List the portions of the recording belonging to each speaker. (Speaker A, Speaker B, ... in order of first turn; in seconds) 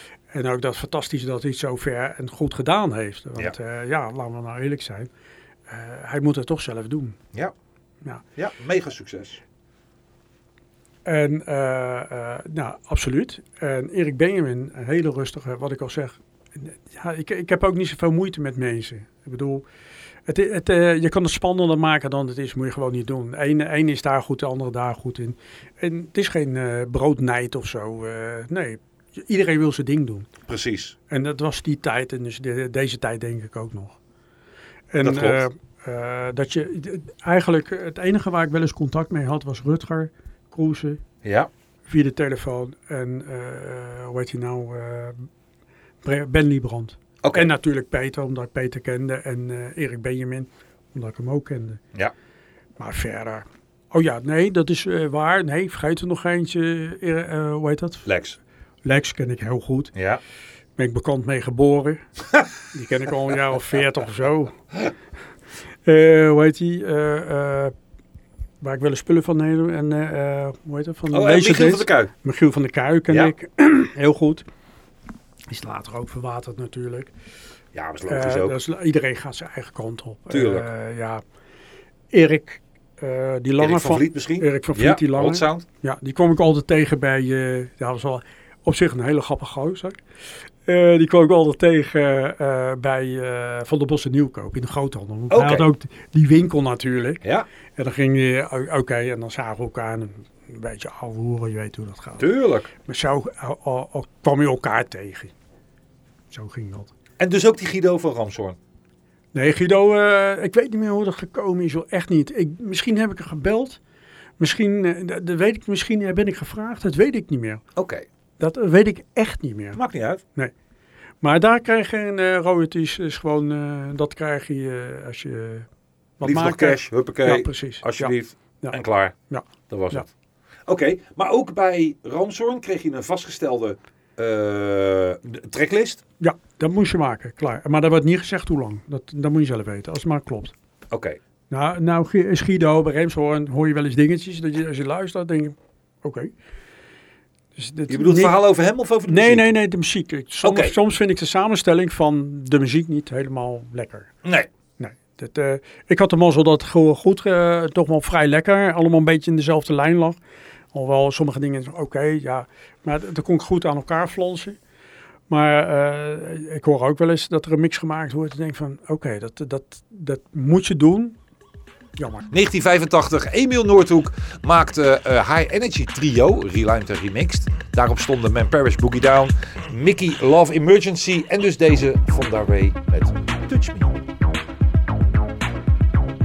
Speaker A: 0.3-5.1, 5.7-7.2, 11.1-19.6, 20.3-30.3, 31.1-34.0, 34.9-41.0, 41.9-45.3, 46.0-51.8, 52.8-58.1, 58.9-59.9, 60.8-62.1, 62.7-64.6, 65.8-67.7, 68.6-74.5, 75.5-77.1, 78.1-81.2, 82.1-90.0, 90.7-97.2, 97.8-105.3, 106.3-106.9, 109.3-113.8, 114.4-117.6, 118.4-119.8, 121.2-125.7, 126.2-128.8, 129.3-130.1, 136.2-140.5, 141.5-146.3, 147.6-148.3, 149.1-154.1, 154.8-160.2, 160.7-164.6, 165.3-171.2, 172.0-172.3
Speaker B: 8.4-9.4, 30.5-31.0, 35.0-35.4, 41.2-41.5, 47.2-47.5, 58.1-58.4, 60.0-60.2, 71.1-72.1, 77.7-78.6, 80.3-80.7, 83.6-85.7, 95.3-95.7, 102.2-102.7, 107.2-108.6, 117.8-118.0, 119.8-120.2, 126.2-129.2, 129.7-130.1, 130.7-136.0, 140.9-141.2, 147.9-149.5, 150.4-150.7, 172.3-184.0